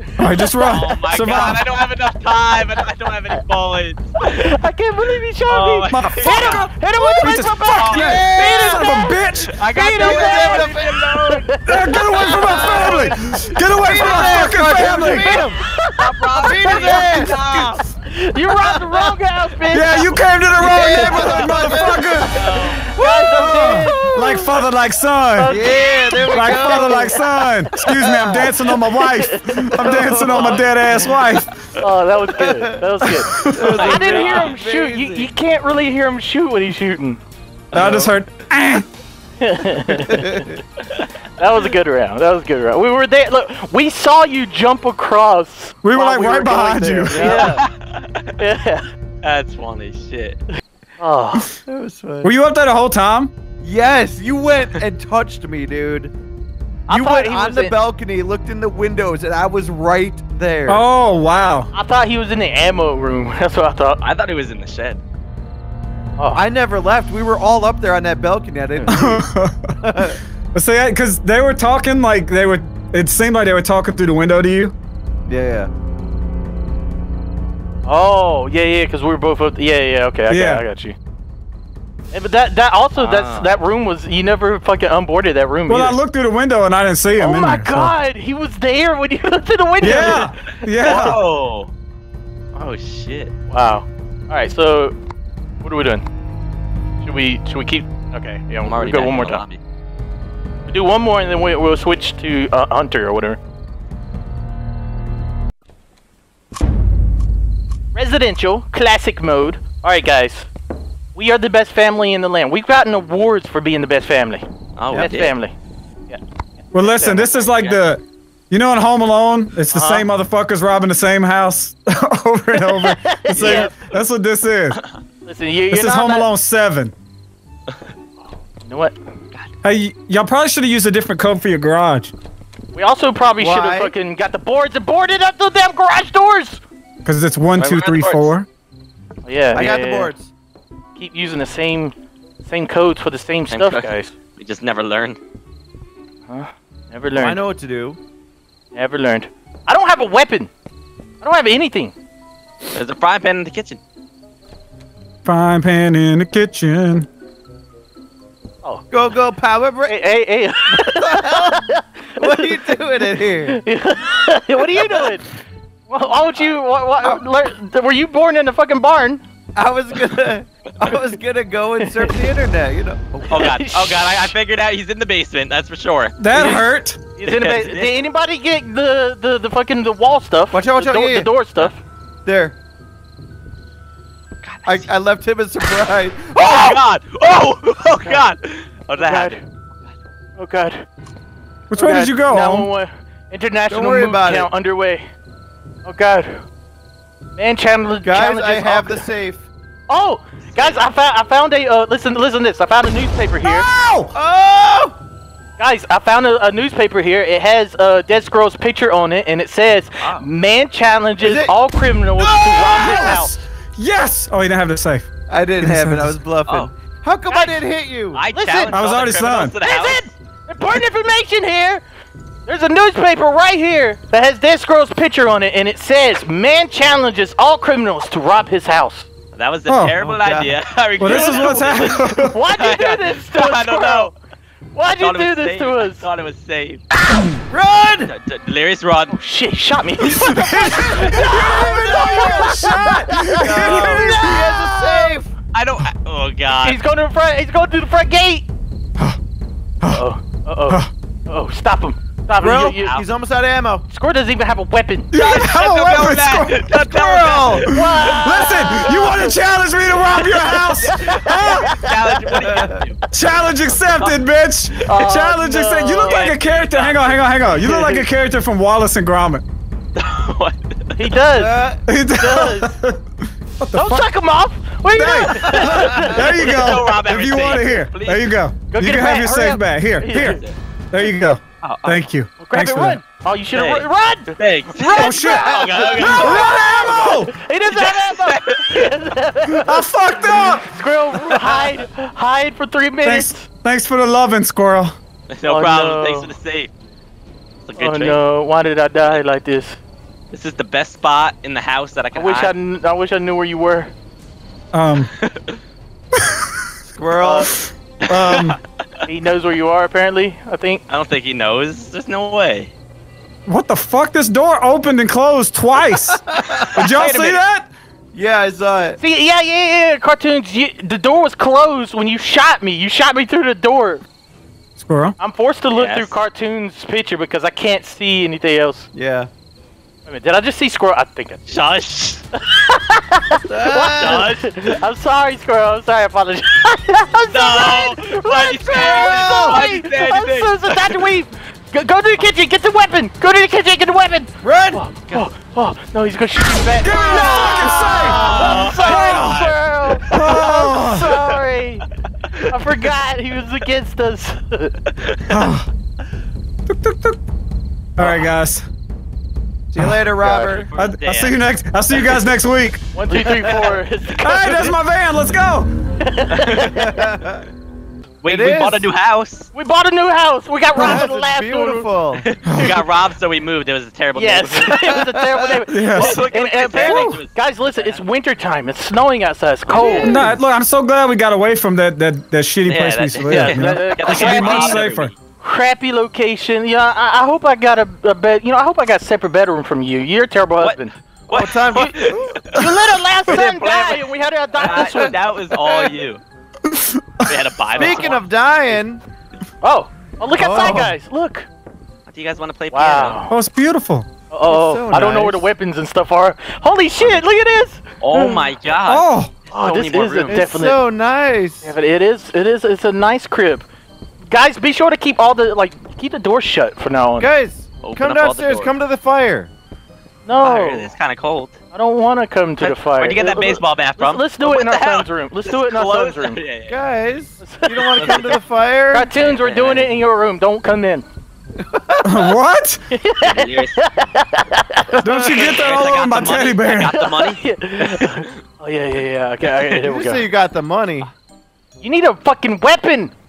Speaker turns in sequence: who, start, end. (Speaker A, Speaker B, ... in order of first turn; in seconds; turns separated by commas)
Speaker A: 0.2-1.6, Speaker B: 0.4-0.9, Speaker C: 0.6-4.5, Speaker B: 4.2-17.2, Speaker C: 5.5-6.7, Speaker A: 5.9-9.5, Speaker C: 7.3-8.2, Speaker D: 7.8-8.9, Speaker C: 9.6-11.0, Speaker D: 9.9-13.1, Speaker A: 11.7-15.4, Speaker D: 13.7-15.6, Speaker C: 16.0-17.8, Speaker D: 16.3-17.4, Speaker A: 17.3-17.8, Speaker B: 18.1-22.0, Speaker D: 18.5-19.1, Speaker A: 19.7-22.4, Speaker D: 20.6-22.4, Speaker C: 22.3-22.9, Speaker B: 22.7-24.6, Speaker D: 23.0-24.1, Speaker A: 23.3-25.6, Speaker B: 25.3-27.2, Speaker D: 25.4-27.2, Speaker A: 26.2-31.5, Speaker B: 27.7-30.5, Speaker D: 28.0-28.5, Speaker D: 29.8-30.6, Speaker C: 30.2-30.7, Speaker B: 31.8-37.2, Speaker D: 32.4-35.3, Speaker A: 33.0-33.8, Speaker C: 33.4-34.6, Speaker A: 37.7-38.9, Speaker D: 37.7-38.1, Speaker B: 39.4-40.5, Speaker D: 39.9-40.6, Speaker B: 41.4-47.6, Speaker A: 45.8-47.5, Speaker D: 45.9-47.6, Speaker C: 47.1-48.4, Speaker B: 48.4-48.9, Speaker C: 49.2-50.4, Speaker B: 51.0-51.5, Speaker D: 51.6-52.3, Speaker A: 52.2-53.3, Speaker D: 53.6-56.1, Speaker B: 56.9-57.8, Speaker D: 56.9-60.8, Speaker A: 60.7-61.7, Speaker B: 61.7-64.0, Speaker C: 64.0-65.0, Speaker D: 66.3-69.2, Speaker A: 68.9-69.7, Speaker D: 69.8-70.2, Speaker A: 70.5-74.7, Speaker D: 75.2-75.7, Speaker B: 77.8-81.0, Speaker A: 80.3-80.6, Speaker B: 82.1-86.0, Speaker C: 83.0-83.5, Speaker A: 85.7-87.9, Speaker B: 87.2-90.3, Speaker A: 89.8-91.2, Speaker C: 89.9-91.7, Speaker C: 92.5-93.3, Speaker B: 93.5-94.9, Speaker B: 95.6-96.0, Speaker B: 97.0-99.4, Speaker C: 98.6-99.6, Speaker B: 100.7-103.4, Speaker B: 107.9-110.5, Speaker B: 111.1-115.5, Speaker C: 114.8-115.3, Speaker A: 116.7-124.8, Speaker B: 116.7-117.3, Speaker C: 117.3-117.8, Speaker B: 119.7-120.1, Speaker B: 122.6-123.7, Speaker D: 123.3-123.7, Speaker B: 125.2-126.3, Speaker A: 125.7-126.9, Speaker B: 128.2-129.0, Speaker A: 129.6-132.1, Speaker B: 132.7-136.6, Speaker D: 133.4-133.9, Speaker A: 137.0-138.5, Speaker C: 137.5-138.3, Speaker B: 139.2-140.1, Speaker D: 139.5-140.3, Speaker B: 140.9-141.9, Speaker B: 142.4-144.1, Speaker C: 143.5-145.2, Speaker B: 146.3-147.4, Speaker D: 147.2-148.0, Speaker B: 148.7-150.5, Speaker B: 151.2-151.9, Speaker C: 152.7-153.8, Speaker A: 155.2-157.1, Speaker D: 158.9-160.0, Speaker B: 159.8-162.5, Speaker D: 160.7-163.6, Speaker B: 163.4-165.3, Speaker B: 165.9-169.2, Speaker D: 167.0-167.2, Speaker D: 169.6-173.5, Speaker B: 171.8-172.2, Speaker B: 173.3-173.9, Speaker C: 173.3-176.6, Speaker A: 176.2-177.0, Speaker B: 176.3-176.6, Speaker B: 177.2-181.8, Speaker C: 177.2-178.0, Speaker D: 180.5-181.3, Speaker D: 182.2-182.6, Speaker C: 184.4-184.9, Speaker D: 184.6-186.8, Speaker C: 186.3-189.4, Speaker B: 189.0-189.4, Speaker B: 190.4-190.8, Speaker A: 191.7-192.7, Speaker B: 191.7-195.1, Speaker D: 193.7-194.5, Speaker B: 195.8-196.4, Speaker B: 197.3-199.0, Speaker D: 198.0-199.4, Speaker B: 199.9-203.7, Speaker C: 200.5-200.8, Speaker A: 203.4-204.1, Speaker D: 204.1-205.0, Speaker B: 205.6-213.4, Speaker C: 210.0-210.2, Speaker D: 211.2-211.5, Speaker D: 212.2-213.2, Speaker A: 212.7-215.1, Speaker D: 215.3-218.2, Speaker A: 215.6-216.1, Speaker C: 216.4-216.7, Speaker B: 217.3-217.6, Speaker C: 218.1-220.1, Speaker B: 218.3-218.8, Speaker A: 218.7-219.5, Speaker B: 219.6-221.8, Speaker B: 222.4-229.1, Speaker C: 229.3-234.2, Speaker A: 229.7-229.9, Speaker D: 230.0-230.6, Speaker A: 231.0-232.3, Speaker B: 231.1-234.2, Speaker B: 234.7-236.0, Speaker C: 235.0-236.8, Speaker D: 237.5-238.1, Speaker C: 238.1-239.1, Speaker B: 239.1-245.2, Speaker A: 240.0-244.4, Speaker D: 240.9-245.3, Speaker C: 245.5-246.8, Speaker B: 246.6-248.5, Speaker B: 249.9-253.0, Speaker D: 252.4-253.8, Speaker C: 252.8-253.1, Speaker B: 253.9-255.1, Speaker A: 255.1-256.6, Speaker C: 255.1-259.3, Speaker D: 256.7-257.8, Speaker B: 257.7-259.3, Speaker A: 257.8-261.8, Speaker B: 260.1-262.7, Speaker C: 260.6-263.0, Speaker D: 262.3-262.8, Speaker A: 263.1-269.4, Speaker B: 264.8-266.3, Speaker C: 266.0-267.4, Speaker B: 267.5-268.1, Speaker C: 269.9-271.1, Speaker B: 271.0-271.6, Speaker D: 271.3-271.8, Speaker A: 271.9-274.1, Speaker B: 272.1-272.7, Speaker B: 273.7-276.6, Speaker A: 274.9-283.0, Speaker D: 275.5-276.1, Speaker C: 275.5-278.3, Speaker B: 278.7-280.4, Speaker C: 280.1-280.6, Speaker C: 281.6-282.1, Speaker B: 282.4-293.5, Speaker C: 283.5-288.9, Speaker A: 284.9-287.3, Speaker D: 285.7-286.8, Speaker A: 289.4-290.7, Speaker D: 291.2-291.6, Speaker A: 293.0-295.0, Speaker C: 295.3-296.7, Speaker B: 295.4-296.3, Speaker C: 297.6-298.2, Speaker B: 297.8-299.8, Speaker C: 300.3-302.5, Speaker B: 302.1-303.9, Speaker A: 304.7-305.1, Speaker C: 305.1-305.6, Speaker A: 306.2-306.5, Speaker D: 306.8-307.6, Speaker B: 307.2-307.5, Speaker C: 308.0-308.6, Speaker A: 308.1-308.6, Speaker B: 309.0-310.8, Speaker C: 310.9-312.7, Speaker A: 313.5-316.2, Speaker D: 316.1-317.0, Speaker C: 316.5-317.4, Speaker A: 316.7-317.7, Speaker D: 318.1-319.0, Speaker B: 319.0-324.0, Speaker A: 324.8-325.1, Speaker B: 325.2-328.9, Speaker C: 325.7-326.1, Speaker D: 328.9-329.3, Speaker B: 330.1-331.5, Speaker C: 331.5-332.2, Speaker B: 332.3-351.9, Speaker D: 333.4-334.3, Speaker C: 334.0-334.8, Speaker C: 337.3-341.1, Speaker D: 338.7-339.6, Speaker D: 344.4-345.2, Speaker A: 346.8-348.5, Speaker C: 347.2-351.4, Speaker D: 348.2-349.3, Speaker A: 350.1-351.2, Speaker C: 352.2-352.9, Speaker B: 352.5-354.8, Speaker A: 355.3-355.7, Speaker A: 356.6-357.2, Speaker A: 358.0-358.6, Speaker D: 359.7-360.7, Speaker A: 359.8-360.1, Speaker C: 360.1-362.2, Speaker A: 360.7-362.8, Speaker B: 362.9-364.8, Speaker D: 363.2-363.8, Speaker A: 364.1-365.7, Speaker B: 366.0-367.0, Speaker C: 366.3-366.7, Speaker D: 366.6-367.4, Speaker C: 368.2-369.5, Speaker D: 368.3-368.9, Speaker B: 369.5-371.9, Speaker D: 370.7-372.3, Speaker C: 372.2-374.9, Speaker A: 372.4-372.8, Speaker B: 374.1-380.3, Speaker D: 374.7-375.5, Speaker A: 375.7-377.2, Speaker C: 375.9-378.0, Speaker C: 379.7-380.3, Speaker A: 380.0-385.1, Speaker C: 382.6-385.1, Speaker B: 383.3-384.9, Speaker B: 385.4-390.9, Speaker C: 390.6-392.6, Speaker D: 391.3-392.6, Speaker B: 391.7-395.2, Speaker C: 393.3-396.2, Speaker D: 394.6-395.9, Speaker A: 396.6-397.4, Speaker C: 397.2-398.2, Speaker B: 397.7-398.2, Speaker D: 397.8-399.0, Speaker B: 399.6-401.5, Speaker D: 400.3-400.9, Speaker C: 402.1-403.2, Speaker B: 402.7-403.3, Speaker A: 403.3-404.1, Speaker B: 404.3-408.3, Speaker D: 404.5-405.5, Speaker C: 408.0-410.4, Speaker A: 408.9-409.3, Speaker B: 409.5-410.8, Speaker D: 410.3-411.7, Speaker B: 411.6-413.7, Speaker B: 414.3-417.3, Speaker D: 417.2-419.5, Speaker C: 417.8-418.7, Speaker B: 420.2-420.9, Speaker C: 420.4-421.6, Speaker B: 421.7-426.4, Speaker C: 422.6-426.8, Speaker D: 426.7-429.1, Speaker B: 427.4-431.0, Speaker C: 427.9-428.4, Speaker C: 429.1-430.0, Speaker D: 431.6-432.3, Speaker A: 432.0-432.8, Speaker B: 432.9-435.9, Speaker C: 433.2-433.8, Speaker A: 435.0-436.9, Speaker C: 435.3-438.4, Speaker B: 436.8-440.2, Speaker D: 439.7-441.1, Speaker B: 441.8-443.1